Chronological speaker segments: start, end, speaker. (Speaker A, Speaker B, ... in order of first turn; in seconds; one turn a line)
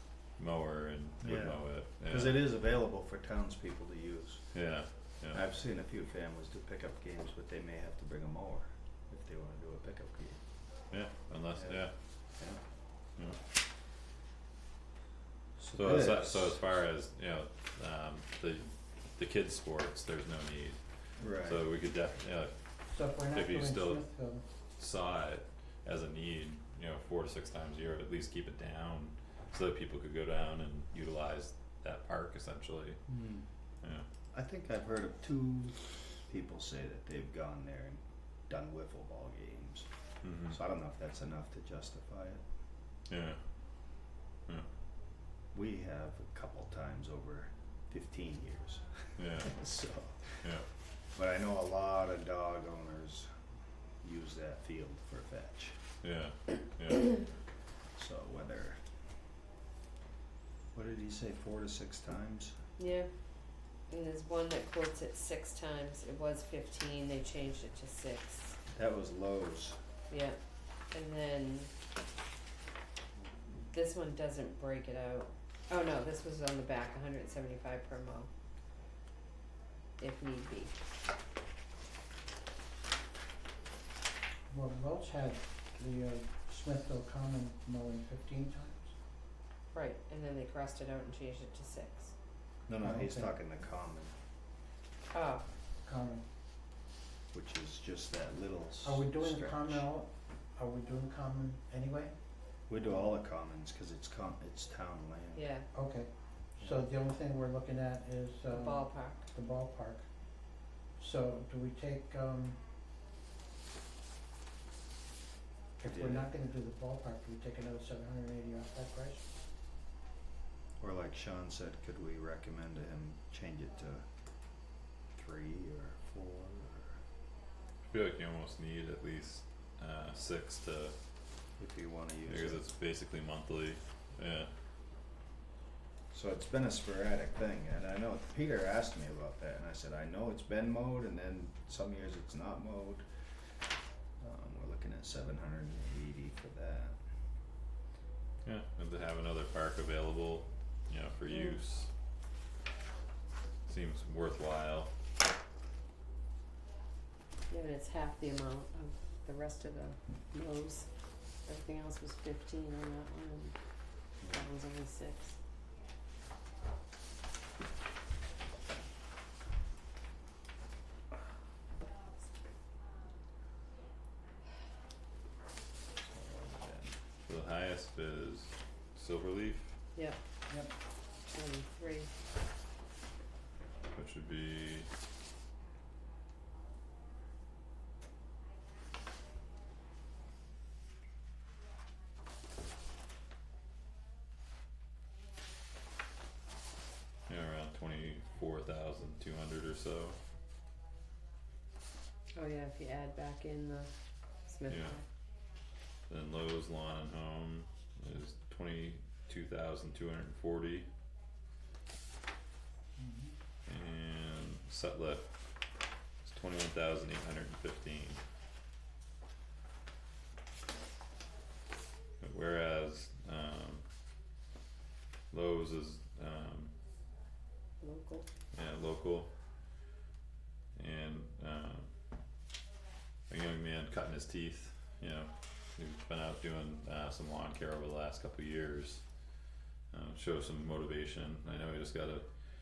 Speaker A: 0.4-2.4
Speaker B: 1.2-4.4
Speaker A: 4.5-5.4
Speaker B: 5.3-10.4
Speaker A: 10.9-11.9
Speaker B: 11.6-11.8
Speaker B: 15.6-16.6
Speaker A: 15.7-20.8
Speaker B: 21.2-21.6
Speaker A: 21.4-22.6
Speaker C: 22.9-24.4
Speaker A: 23.3-24.0
Speaker A: 24.8-33.0
Speaker B: 33.1-33.5
Speaker B: 34.3-39.9
Speaker A: 40.2-40.6
Speaker B: 40.5-42.4
Speaker A: 43.1-43.4
Speaker B: 45.5-50.5
Speaker A: 49.2-49.5
Speaker B: 51.1-53.3
Speaker B: 54.0-55.8
Speaker A: 56.0-57.2
Speaker B: 58.0-58.8
Speaker B: 60.8-62.6
Speaker D: 62.8-63.1
Speaker D: 63.9-68.6
Speaker B: 68.7-69.8
Speaker D: 70.1-70.4
Speaker D: 70.9-71.7
Speaker D: 73.7-78.3
Speaker D: 80.0-80.7
Speaker C: 84.5-88.9
Speaker D: 89.7-92.1
Speaker B: 92.7-94.1
Speaker C: 92.8-93.3
Speaker D: 95.1-95.5
Speaker C: 95.8-96.2
Speaker B: 97.3-99.8
Speaker C: 98.8-102.2
Speaker B: 102.7-105.5
Speaker D: 105.4-105.7
Speaker C: 105.7-110.0
Speaker D: 108.5-109.3
Speaker C: 111.0-112.6
Speaker C: 115.8-119.3
Speaker B: 115.9-116.3
Speaker B: 120.8-124.1
Speaker B: 125.1-127.0
Speaker A: 127.9-131.0
Speaker B: 131.6-132.6
Speaker A: 132.3-134.5
Speaker B: 136.1-143.1
Speaker B: 144.2-147.0
Speaker A: 148.4-151.9
Speaker A: 153.7-154.9
Speaker D: 157.5-160.9
Speaker D: 161.5-163.6
Speaker D: 164.2-165.4
Speaker B: 176.1-177.0
Speaker A: 177.3-179.8
Speaker D: 181.3-182.1
Speaker A: 183.9-184.9
Speaker A: 197.3-200.2
Speaker D: 202.3-203.9
Speaker D: 204.4-205.0
Speaker A: 204.7-205.0
Speaker A: 206.1-210.9
Speaker C: 213.0-213.3
Speaker A: 213.7-215.3
Speaker A: 216.2-218.2
Speaker A: 222.2-223.8
Speaker A: 225.3-226.7
Speaker D: 227.8-228.3
Speaker A: 228.5-229.3
Speaker A: 230.8-231.9
Speaker A: 233.3-239.0
Speaker A: 239.9-242.2